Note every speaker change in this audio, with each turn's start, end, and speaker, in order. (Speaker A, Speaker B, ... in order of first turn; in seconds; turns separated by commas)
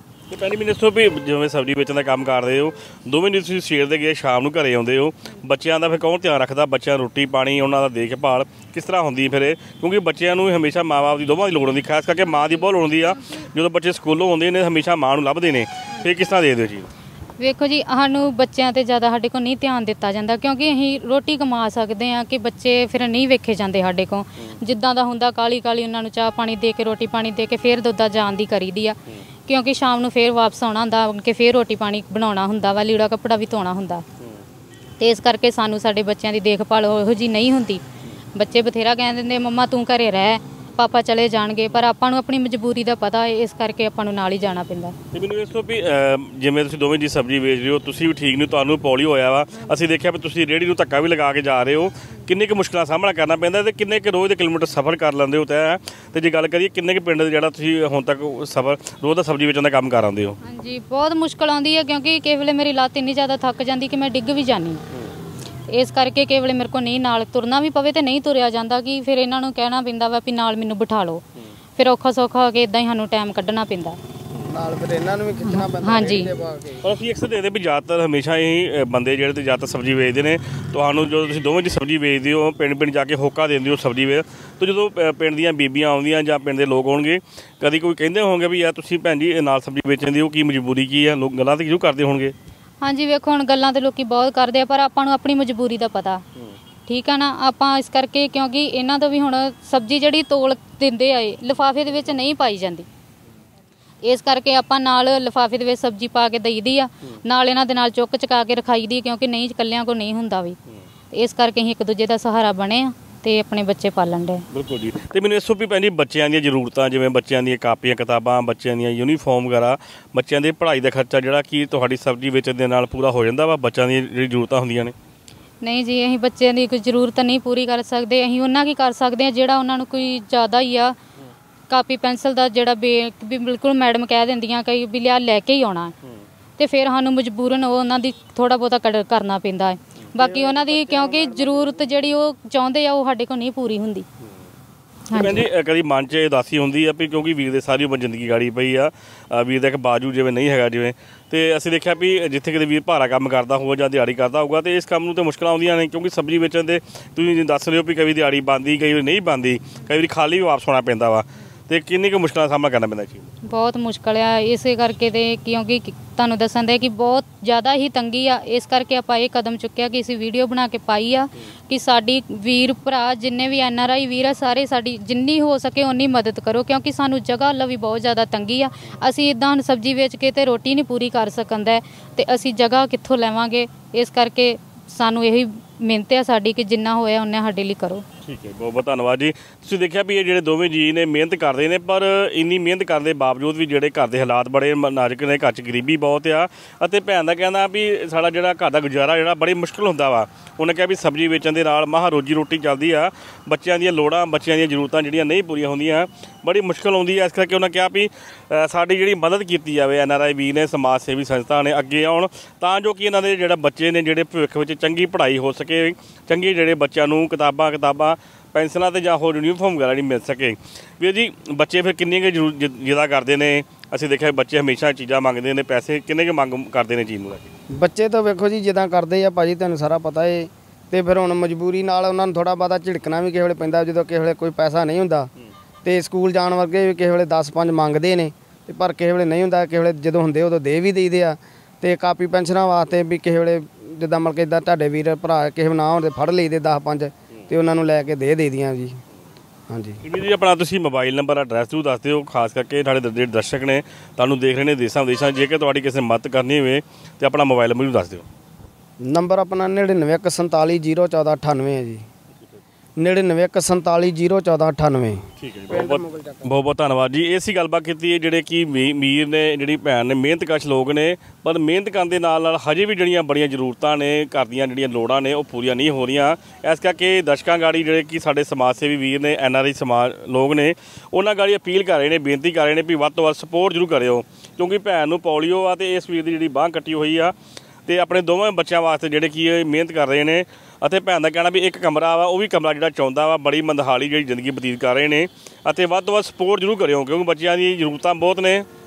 Speaker A: 0.3-16.9, Speaker B: 17.4-34.0, Speaker B: 35.0-37.8, Speaker B: 38.3-45.0, Speaker A: 45.1-60.4, Speaker B: 60.4-64.8, Speaker B: 65.7-71.2, Speaker B: 71.8-74.0, Speaker C: 74.5-76.8, Speaker B: 75.4-76.3, Speaker A: 76.8-92.3, Speaker B: 92.8-96.2, Speaker B: 96.9-102.9, Speaker B: 104.0-110.6, Speaker B: 111.1-114.5, Speaker A: 114.5-124.9, Speaker B: 125.6-131.0, Speaker B: 131.7-135.9, Speaker B: 136.6-144.1, Speaker C: 140.2-142.2, Speaker B: 145.1-145.4, Speaker A: 145.1-163.3, Speaker B: 163.4-188.0, Speaker A: 188.2-227.5, Speaker C: 227.7-235.3, Speaker C: 235.8-249.0, Speaker C: 249.7-250.0, Speaker A: 250.0-258.2, Speaker C: 259.0-262.0, Speaker C: 263.0-266.5, Speaker A: 265.4-287.3, Speaker A: 287.9-298.6